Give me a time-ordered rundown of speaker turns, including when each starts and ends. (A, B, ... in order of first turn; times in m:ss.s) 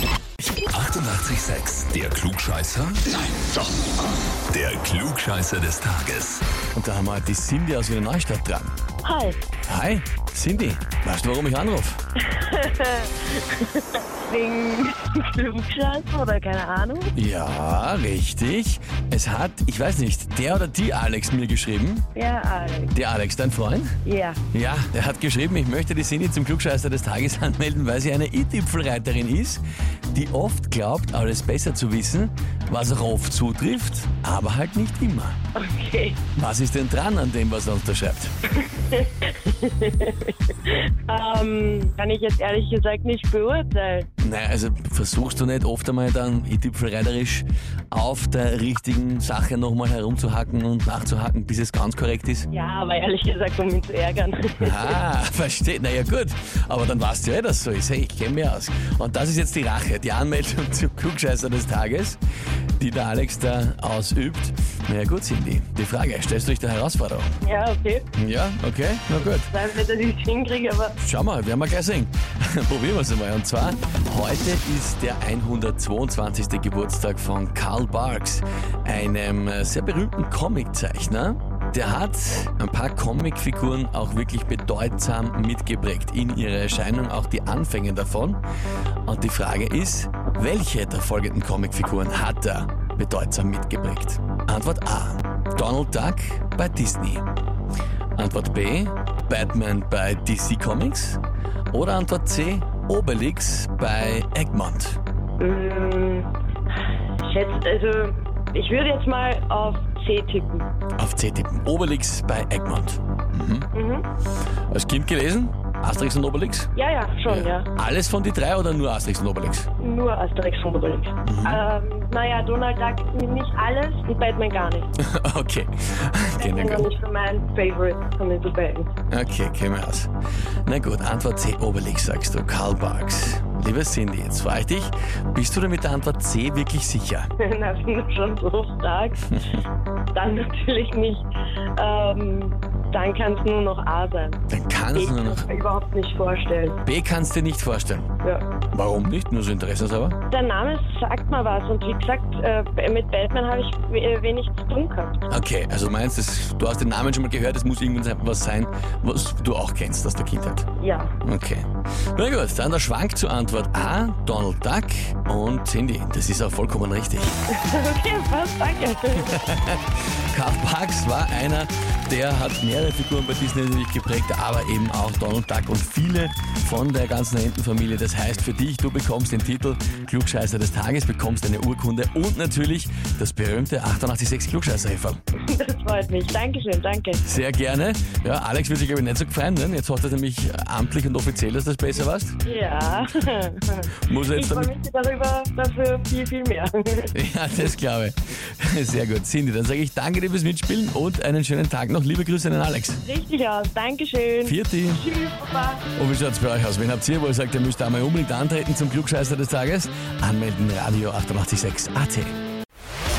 0:00.7-0:03.6 A
0:04.5-0:06.4 A
0:06.7-0:08.7 B
0:09.0-0:09.4 C
0:09.7-0:12.0 B
0:12.2-0:17.1 C
0:17.1-0:22.1 B
0:22.1-0:22.9 C
0:22.9-0:24.0 B
0:24.0-0:24.4 C
0:24.5-0:29.6 B
0:30.1-0:35.4 B
0:35.5-0:36.2 C
0:36.3-0:38.3 B
0:38.6-0:44.1 C
0:44.2-0:52.5 B
0:52.5-0:55.0 C
0:54.6-1:02.2 B
1:02.8-1:07.4 B
1:07.4-1:08.1 C
1:08.2-1:09.5 B
1:09.5-1:11.0 C
1:11.0-1:28.4 B
1:29.0-1:37.2 B
1:38.2-1:41.2 B
1:41.7-1:45.0 B
1:45.4-1:46.3 C
1:47.2-1:50.7 C
1:51.0-1:53.7 B
1:53.7-1:54.0 C
1:54.7-1:56.7 B
1:56.7-1:57.7 C
1:57.2-1:59.7 B
1:59.8-2:04.9 C
2:01.2-2:01.6 B
2:05.0-2:06.9 B
2:06.4-2:08.9 C
2:09.1-2:10.1 B
2:10.6-2:17.3 B
2:17.4-2:19.3 C
2:20.1-2:24.4 C
2:24.5-2:25.4 B
2:24.9-2:26.8 C
2:26.8-2:28.1 B
2:28.7-2:30.2 B
2:30.3-2:35.2 C
2:35.3-2:40.6 B
2:40.8-2:41.1 C
2:41.2-2:47.4 B
2:47.5-2:49.4 C
2:49.2-3:05.2 B
3:05.4-3:07.2 C
3:07.2-3:12.4 B
3:12.4-3:17.1 C
3:14.0-3:14.7 B
3:17.1-3:23.0 B
3:23.0-3:25.8 C
3:24.4-3:25.0 B
3:25.9-3:32.3 B